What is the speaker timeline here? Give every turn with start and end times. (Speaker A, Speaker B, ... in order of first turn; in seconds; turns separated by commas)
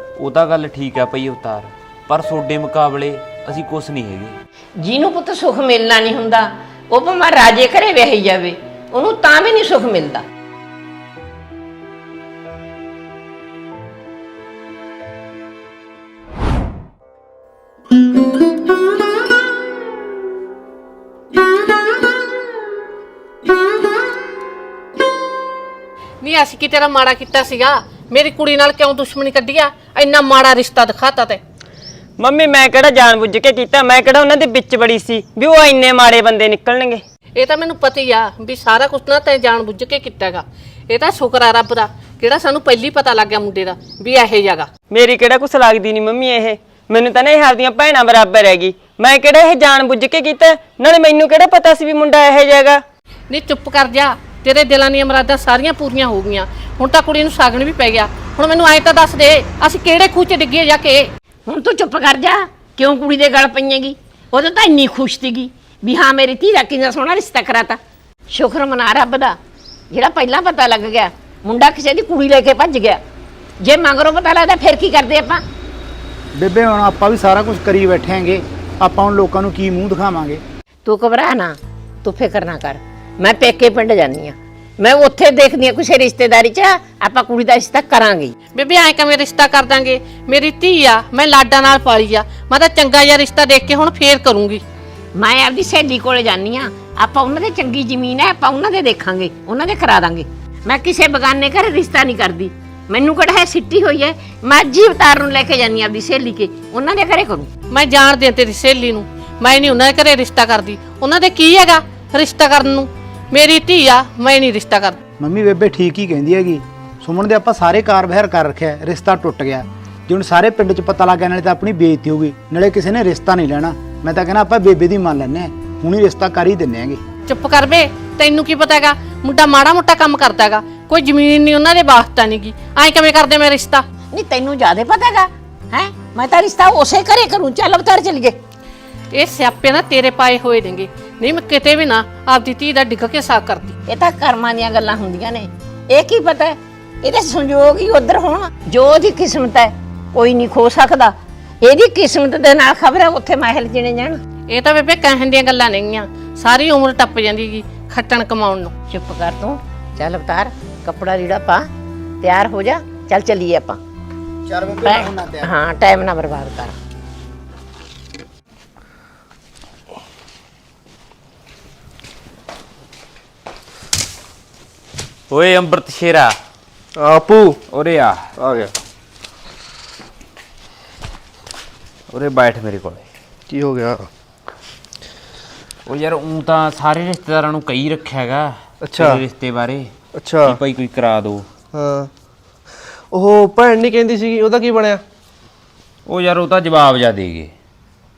Speaker A: 0.2-4.4, Speaker B: 4.8-10.2, Speaker C: 26.2-31.4, Speaker D: 32.2-37.0, Speaker C: 37.4-44.7, Speaker D: 44.9-52.8, Speaker C: 53.3-61.1, Speaker B: 61.5-67.8, Speaker B: 68.3-69.4, Speaker B: 69.9-73.0, Speaker B: 73.6-75.4, Speaker E: 76.3-80.4, Speaker B: 80.8-88.3, Speaker C: 88.5-94.6, Speaker B: 95.2-107.5, Speaker C: 107.7-115.0, Speaker E: 115.2-127.0, Speaker C: 127.3-133.8, Speaker B: 134.1-138.4, Speaker C: 139.1-143.8, Speaker B: 143.9-154.2, Speaker C: 154.5-158.7, Speaker B: 158.9-161.7, Speaker B: 162.2-163.8, Speaker E: 164.5-165.5, Speaker B: 164.8-166.8, Speaker A: 175.3-176.4, Speaker F: 177.0-177.6, Speaker A: 177.7-178.3, Speaker F: 178.4-178.7, Speaker A: 182.1-183.1, Speaker F: 183.5-184.1, Speaker A: 185.9-189.9, Speaker F: 188.8-189.2, Speaker F: 190.2-190.6, Speaker A: 190.4-191.5, Speaker F: 191.7-192.1, Speaker F: 193.1-195.0, Speaker A: 196.1-197.5